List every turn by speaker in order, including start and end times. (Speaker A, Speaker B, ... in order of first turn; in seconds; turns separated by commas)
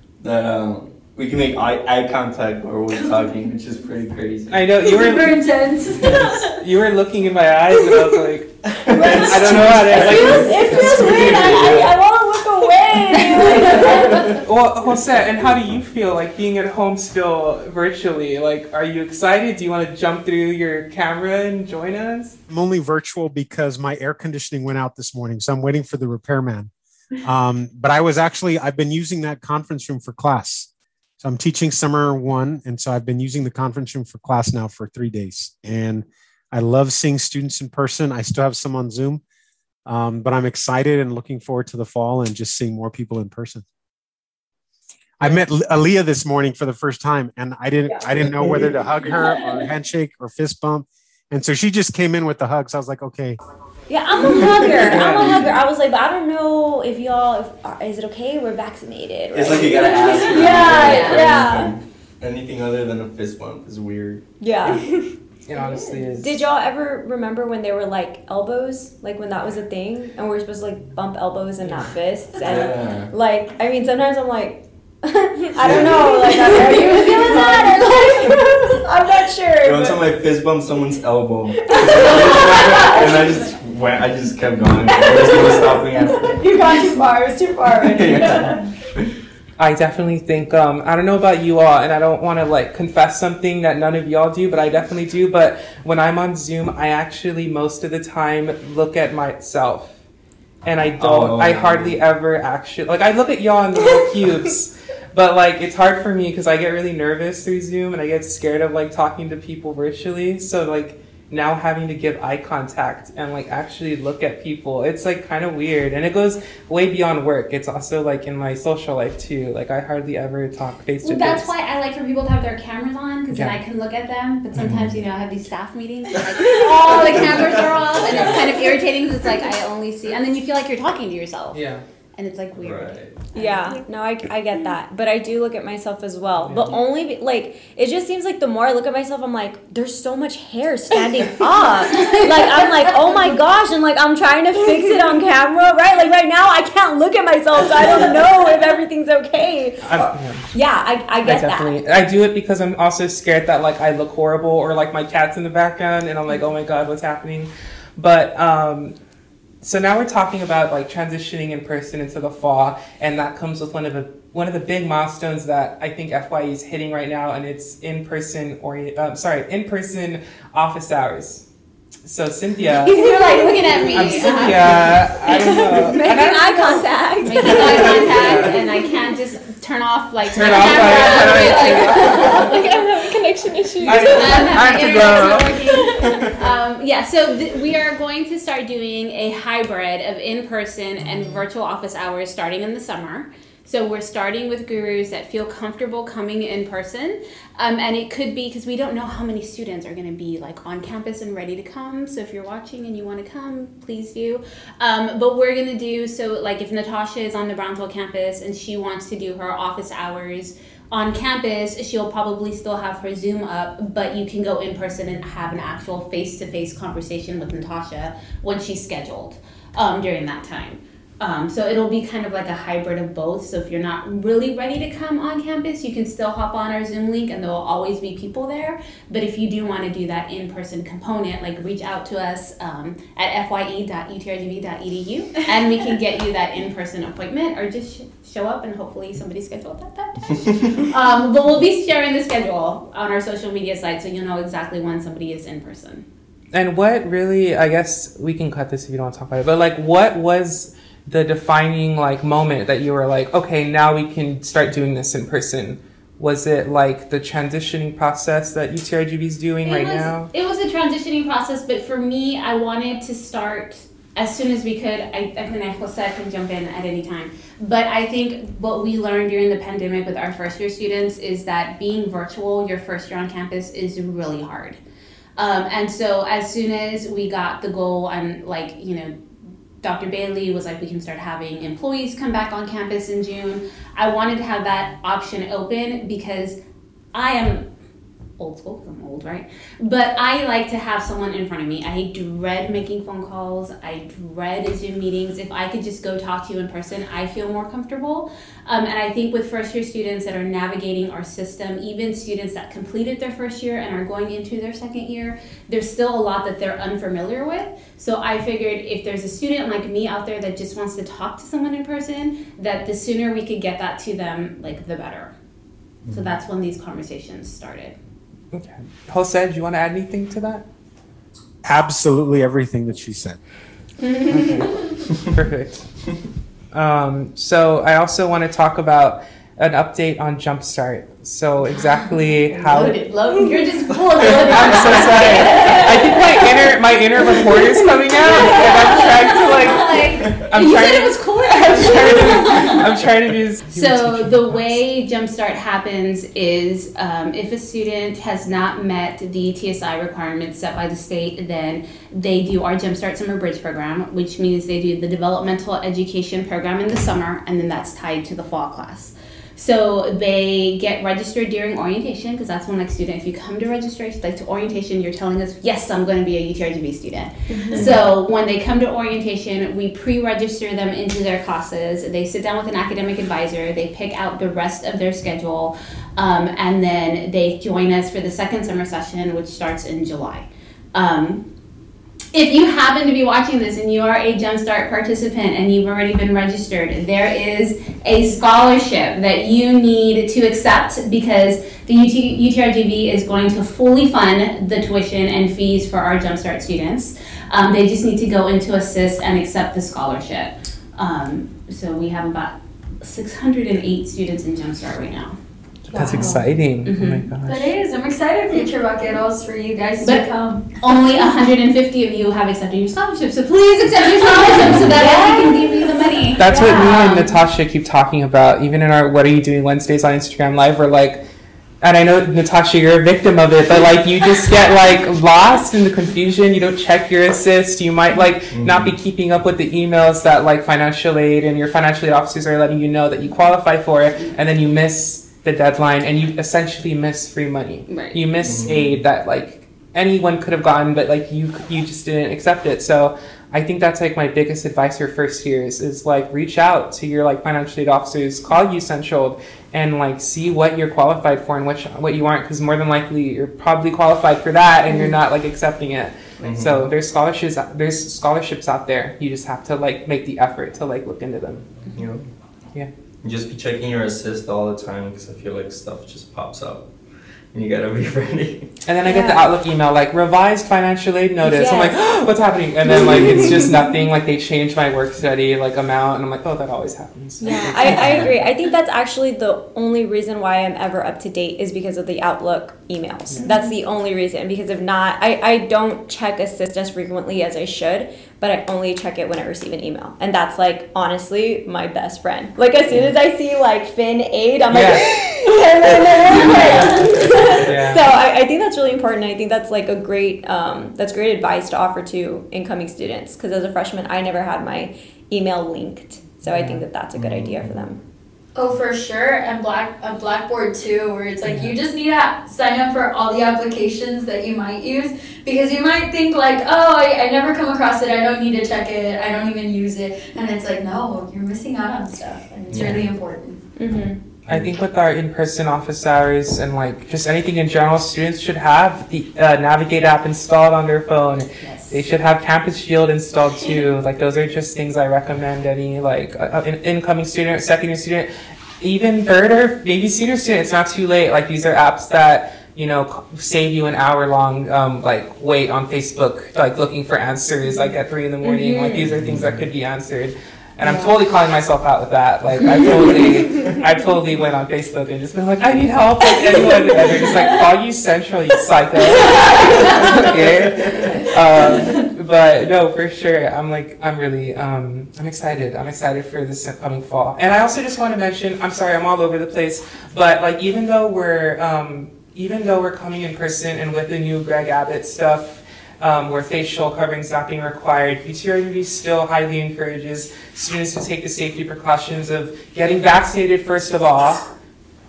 Speaker A: 0.2-4.7, Speaker B: 2.9-3.4, Speaker C: 4.5-8.6, Speaker B: 4.8-6.6, Speaker A: 8.6-11.9, Speaker D: 8.9-14.3, Speaker C: 9.2-11.6, Speaker B: 10.8-11.4, Speaker A: 14.1-14.4, Speaker C: 14.4-22.4, Speaker E: 22.5-26.7, Speaker E: 27.2-30.7, Speaker E: 31.2-39.2, Speaker E: 39.9-43.6, Speaker E: 45.2-53.4, Speaker D: 47.9-48.7, Speaker D: 53.9-61.7, Speaker C: 54.9-55.5, Speaker A: 59.3-64.2, Speaker F: 60.9-61.2, Speaker D: 64.4-64.9, Speaker C: 65.5-66.4, Speaker D: 65.5-80.0, Speaker A: 72.4-73.1, Speaker A: 75.6-76.5, Speaker B: 76.5-78.0, Speaker A: 79.6-86.5, Speaker D: 81.6-83.4, Speaker D: 84.8-88.7, Speaker A: 87.8-89.1, Speaker C: 89.6-99.9, Speaker C: 100.6-121.5, Speaker A: 101.0-102.0, Speaker F: 121.0-131.6, Speaker C: 123.3-123.6, Speaker A: 124.5-125.0, Speaker A: 126.9-128.3, Speaker C: 128.0-128.5, Speaker C: 131.5-131.8, Speaker F: 132.2-133.8, Speaker A: 132.6-133.2, Speaker D: 133.3-151.8, Speaker C: 136.4-136.7, Speaker B: 142.0-142.3, Speaker B: 143.0-143.4, Speaker C: 149.8-150.5, Speaker C: 151.2-158.9, Speaker C: 159.6-171.4, Speaker C: 172.0-173.3, Speaker F: 172.8-174.9, Speaker D: 172.8-178.6, Speaker C: 173.9-178.6, Speaker F: 177.2-183.0, Speaker C: 180.3-182.5, Speaker G: 180.8-186.3, Speaker D: 180.9-181.5, Speaker F: 183.8-246.1, Speaker C: 183.8-186.2, Speaker C: 246.5-260.3, Speaker F: 259.6-274.8, Speaker F: 275.4-279.1, Speaker F: 279.8-286.6, Speaker F: 287.1-287.7, Speaker F: 288.4-315.3, Speaker A: 316.1-316.4, Speaker F: 316.1-317.9, Speaker C: 318.5-320.6, Speaker E: 321.6-323.4, Speaker C: 324.3-325.9, Speaker C: 326.7-333.0, Speaker F: 331.7-336.4, Speaker A: 334.1-334.5, Speaker C: 334.2-344.8, Speaker D: 334.9-336.2, Speaker F: 338.3-342.8, Speaker D: 338.4-339.0, Speaker F: 343.7-381.4, Speaker B: 367.5-368.0, Speaker F: 382.3-405.4, Speaker C: 405.9-407.7, Speaker F: 405.9-407.3, Speaker B: 406.0-406.3, Speaker B: 407.4-410.8, Speaker F: 410.0-410.3, Speaker F: 410.8-417.3, Speaker B: 415.0-415.8, Speaker C: 416.4-421.2, Speaker C: 421.8-461.7, Speaker A: 428.5-428.9, Speaker F: 437.9-438.2, Speaker A: 438.4-439.0, Speaker A: 456.4-456.8, Speaker A: 461.9-462.3, Speaker A: 463.2-466.9, Speaker A: 467.5-468.7, Speaker C: 468.9-478.3, Speaker D: 469.0-469.5, Speaker D: 471.4-471.9, Speaker D: 472.9-473.8, Speaker D: 477.4-508.0, Speaker C: 494.7-495.2, Speaker C: 496.3-498.0, Speaker A: 496.4-496.9, Speaker C: 506.4-506.8, Speaker A: 507.1-507.9, Speaker B: 508.6-523.6, Speaker C: 511.4-511.7, Speaker A: 522.7-523.1, Speaker D: 523.8-524.2, Speaker A: 524.5-524.7, Speaker C: 524.5-538.3, Speaker F: 531.6-532.0, Speaker C: 538.8-584.5, Speaker D: 548.4-549.1, Speaker A: 549.0-549.7